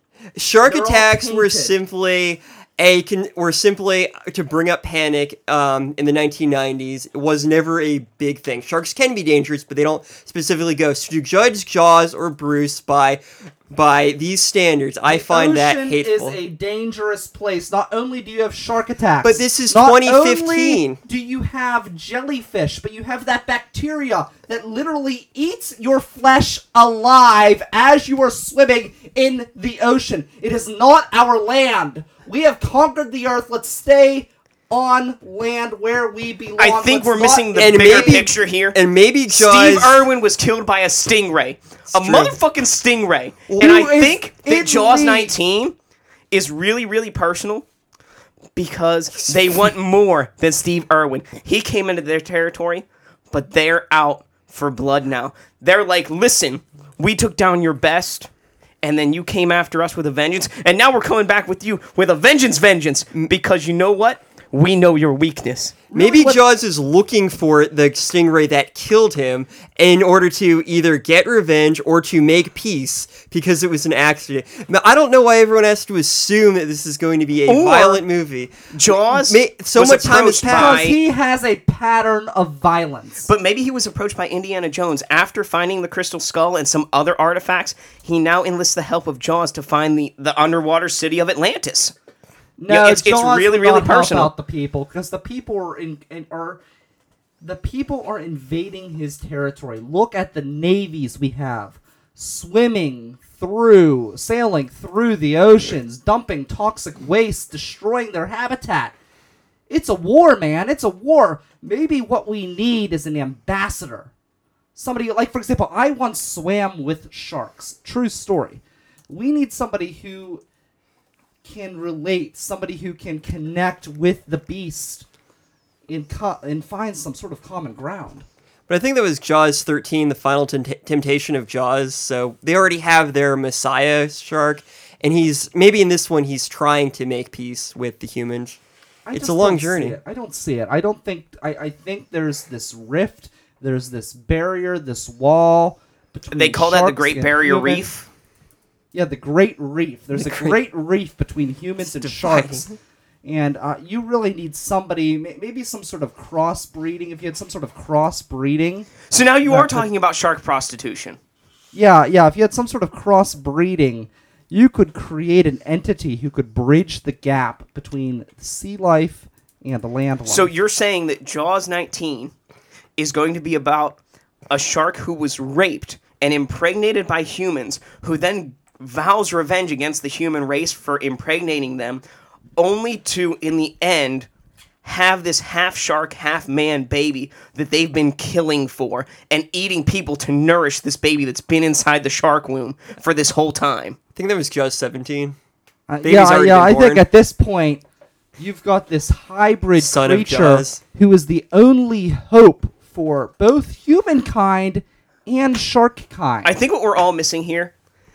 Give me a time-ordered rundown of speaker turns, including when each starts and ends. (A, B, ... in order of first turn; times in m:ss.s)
0:00.4-0:16.4 A
0:00.6-0:01.8 B
0:15.1-0:38.2 B
0:19.2-0:21.0 A
0:36.6-0:38.8 C
0:37.6-0:40.0 A
0:39.3-0:45.7 C
0:41.9-0:42.4 A
0:43.5-0:43.9 A
0:43.6-0:45.4 B
0:46.3-0:47.6 C
0:48.6-0:58.3 C
0:58.8-1:05.8 C
1:05.9-1:06.4 B
1:05.9-1:20.9 A
1:17.5-1:18.0 C
1:18.7-1:21.0 C
1:20.5-1:23.3 B
1:23.2-1:31.9 C
1:32.6-1:36.6 B
1:32.7-1:34.3 C
1:37.4-1:49.0 B
1:49.7-1:54.1 B
1:54.8-2:00.4 B
2:01.4-2:05.1 B
2:05.9-2:08.3 B
2:08.7-2:18.6 A
2:19.1-2:27.9 B
2:19.1-2:20.0 A
2:26.3-2:28.1 C
2:28.9-2:32.7 B
2:30.1-2:30.6 A
2:31.8-2:32.7 A
2:33.2-2:38.9 B
2:39.1-2:41.2 C
2:39.5-2:39.9 B
2:41.7-2:50.5 B
2:50.3-2:52.3 C
2:53.0-2:54.0 C
2:54.5-3:02.0 C
3:02.6-3:04.3 C
3:04.8-3:14.0 C
3:14.2-3:15.4 A
3:15.9-3:17.8 B
3:16.0-3:17.0 A
3:18.4-3:26.6 B
3:19.8-3:20.8 A
3:26.4-3:27.7 C